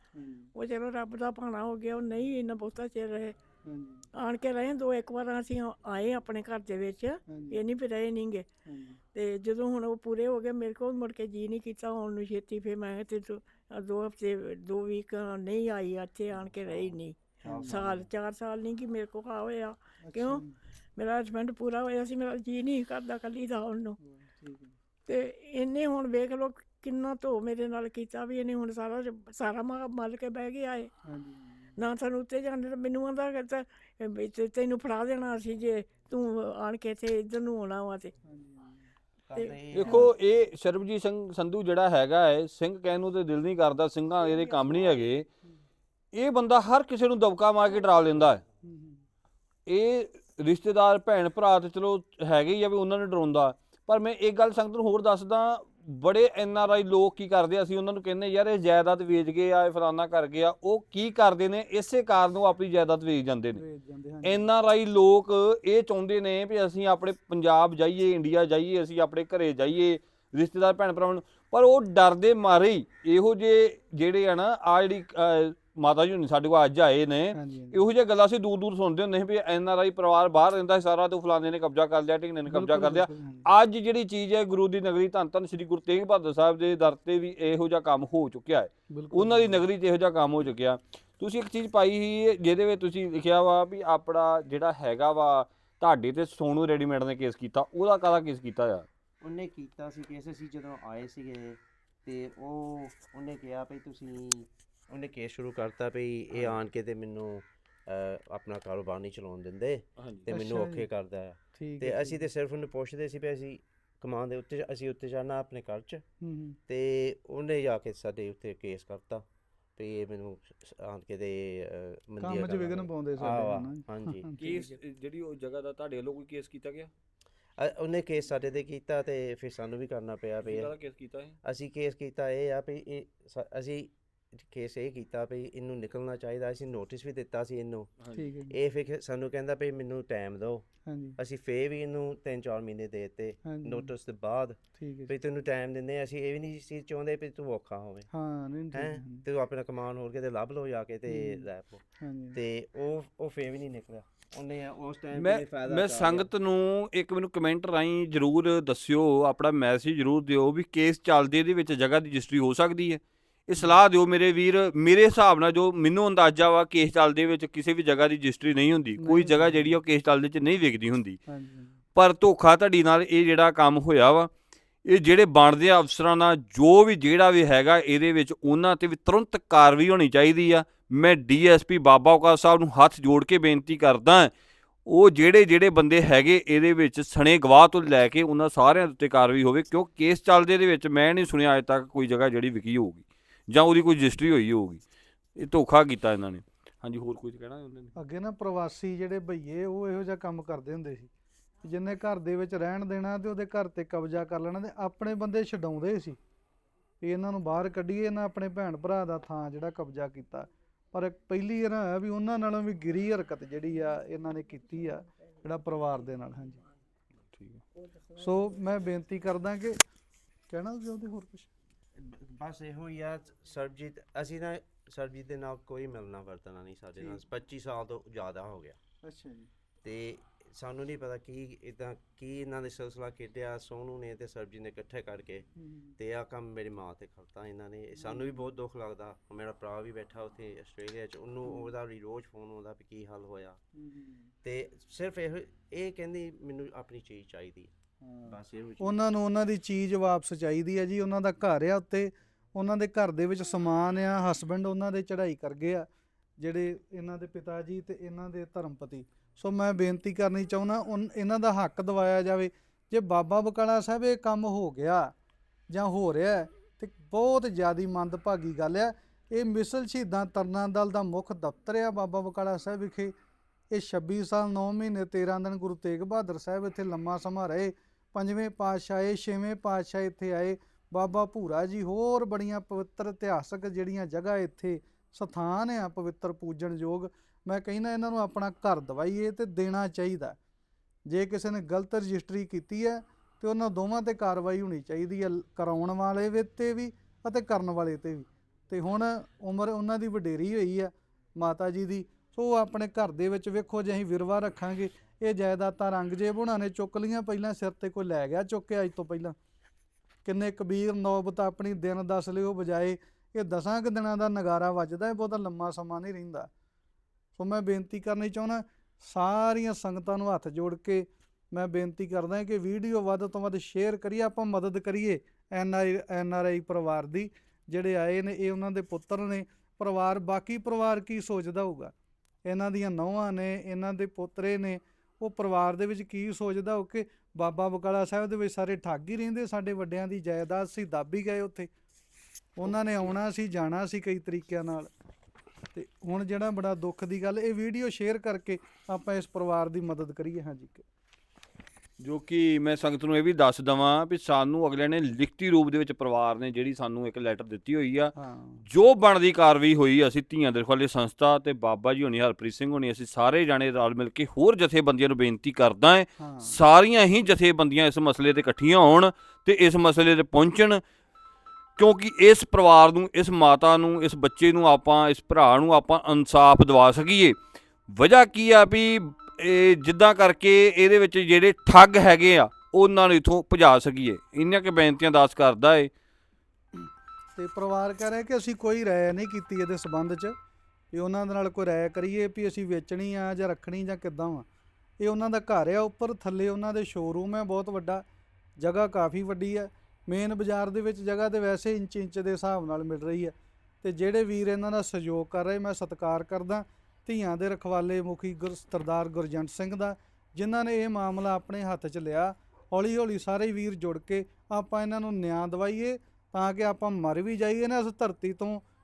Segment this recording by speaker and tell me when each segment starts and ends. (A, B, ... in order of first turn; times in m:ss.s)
0:00.2-0:00.5 A
0:00.5-0:03.4 B
0:03.6-0:04.1 A
0:04.1-0:08.5 B
0:07.3-0:07.6 A
0:08.7-0:09.0 A
0:09.1-0:20.4 B
0:17.4-0:17.8 A
0:17.4-0:18.1 C
0:20.0-0:20.5 A
0:21.0-0:24.0 B
0:24.0-0:24.8 A
0:25.0-0:30.9 B
0:31.1-0:31.7 A
0:31.8-0:38.1 B
0:38.2-0:38.9 A
0:39.3-0:40.1 C
0:39.3-0:40.1 B
0:39.7-0:45.3 D
0:46.1-0:48.4 D
0:48.6-0:49.0 A
0:49.7-1:03.6 D
1:03.5-1:04.4 A
1:04.2-1:38.9 D
1:17.3-1:17.9 A
1:22.5-1:23.5 A
1:28.9-1:29.6 A
1:39.2-1:56.0 C
1:50.0-1:50.3 D
1:50.3-1:50.9 A
1:51.5-1:52.3 A
1:56.2-1:56.6 A
1:56.7-1:59.2 C
1:59.8-2:04.3 C
2:02.2-2:04.7 A
2:04.4-2:06.9 D
2:07.6-2:10.7 C
2:10.4-2:11.4 D
2:11.4-2:17.9 C
2:18.1-2:18.6 A
2:18.5-2:20.7 C
2:20.9-2:21.2 A
2:21.2-2:28.1 C
2:23.4-2:23.9 A
2:24.8-2:25.1 A
2:28.1-2:29.2 A
2:28.7-2:36.3 C
2:31.1-2:31.5 A
2:32.0-2:32.4 A
2:35.1-2:51.2 D
2:49.0-2:49.7 A
2:51.3-2:51.8 A
2:52.0-2:54.3 D
2:54.8-3:04.3 D
3:04.9-3:14.8 D
3:15.4-3:17.9 D
3:18.0-3:21.1 A
3:21.6-3:26.2 A
3:27.0-3:36.6 A
3:37.3-3:37.6 D
3:37.8-3:38.7 B
3:38.2-3:39.8 A
3:40.5-3:41.5 A
3:42.0-3:48.8 C
3:47.0-3:47.2 A
3:49.0-3:49.5 A
3:49.8-3:55.5 C
3:55.6-3:56.0 A
3:56.0-4:03.6 C
3:58.0-3:58.5 A
4:01.4-4:01.7 A
4:03.8-4:04.3 A
4:04.4-4:07.7 C
4:08.0-4:15.9 A
4:08.3-4:09.0 C
4:16.4-4:25.1 A
4:25.7-4:33.2 A
4:33.7-4:50.4 A
4:51.1-5:09.4 A
5:10.2-5:16.5 A
5:17.4-5:31.9 A
5:32.4-5:41.7 A
5:42.6-5:44.9 A
5:45.7-5:50.8 A
5:52.0-6:10.8 D
5:58.2-5:58.6 A
6:06.2-6:06.6 A
6:11.8-6:17.4 D
6:17.9-6:25.9 D
6:27.4-6:30.4 A
6:30.9-6:34.5 A
6:35.0-6:38.0 A
6:38.6-6:58.6 A